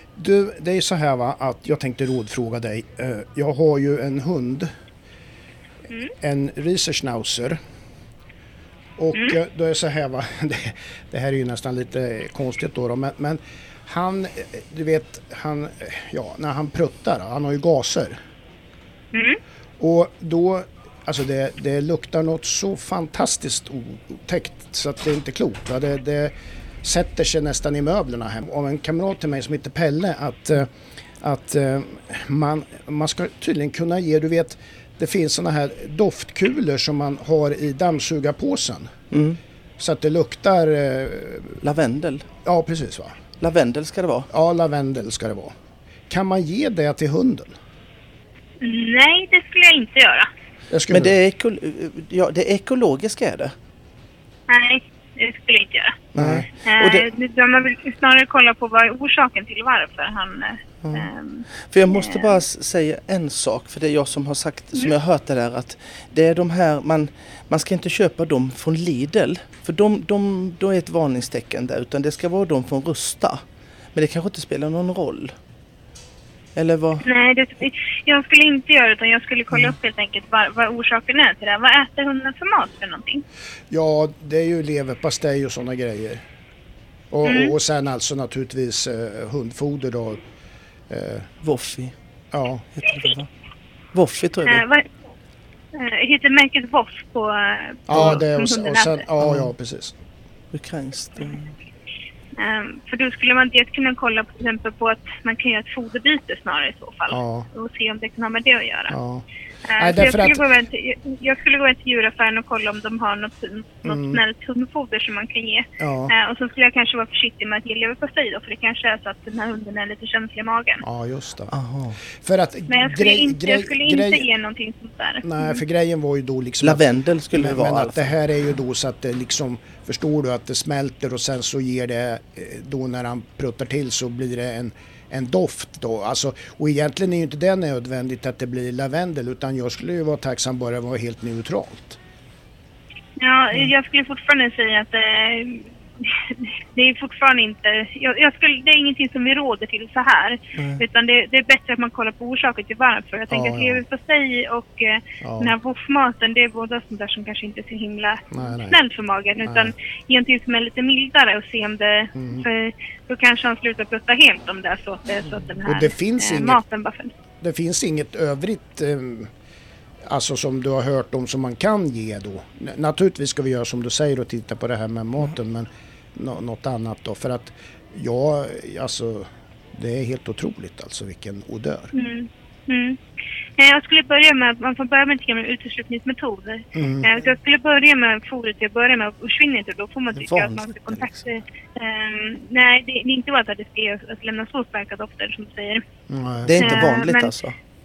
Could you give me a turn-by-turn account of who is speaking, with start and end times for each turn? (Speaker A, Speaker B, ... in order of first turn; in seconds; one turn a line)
Speaker A: 0.2-4.7
Speaker A: 6.2-7.6
Speaker A: 9.0-18.2
Speaker B: 19.1-19.4
Speaker A: 19.8-38.9
Speaker C: 39.1-39.4
Speaker A: 39.8-41.6
Speaker C: 41.6-42.3
Speaker A: 42.5-43.2
Speaker C: 43.4-44.3
Speaker A: 44.3-45.5
Speaker A: 46.1-47.5
Speaker B: 48.6-50.3
Speaker A: 50.7-51.2
Speaker C: 50.9-53.5
Speaker B: 54.5-56.0
Speaker C: 56.1-57.1
Speaker A: 56.1-56.5
Speaker B: 56.6-62.4
Speaker C: 60.8-73.4
Speaker C: 74.0-75.3
Speaker C: 76.6-77.1
Speaker B: 77.0-83.2
Speaker A: 83.7-86.2
Speaker A: 87.1-90.2
Speaker B: 87.2-87.6
Speaker A: 90.9-91.3
Speaker C: 91.4-92.0
Speaker A: 92.3-92.7
Speaker C: 92.8-93.3
Speaker C: 93.9-94.6
Speaker B: 94.5-94.9
Speaker B: 95.7-99.1
Speaker A: 97.9-100.0
Speaker C: 99.2-99.5
Speaker C: 100.5-101.5
Speaker B: 102.4-109.0
Speaker A: 107.1-107.5
Speaker A: 108.9-109.2
Speaker B: 109.7-120.8
Speaker A: 109.8-110.4
Speaker A: 113.8-114.2
Speaker A: 115.8-116.1
Speaker A: 120.8-121.5
Speaker C: 121.5-122.0
Speaker A: 122.1-124.3
Speaker B: 122.7-125.6
Speaker A: 125.2-142.0
Speaker C: 126.6-128.1
Speaker B: 143.2-167.1
Speaker C: 150.6-150.8
Speaker A: 153.3-153.8
Speaker A: 155.2-155.5
Speaker A: 158.3-158.8
Speaker A: 159.4-159.7
Speaker A: 162.2-162.4
Speaker A: 165.7-166.6
Speaker A: 167.4-169.3
Speaker A: 170.1-181.9
Speaker B: 181.9-183.0
Speaker B: 183.6-195.8
Speaker A: 186.8-187.1
Speaker C: 190.2-191.2
Speaker A: 196.1-197.0
Speaker C: 196.4-197.6
Speaker B: 196.6-197.3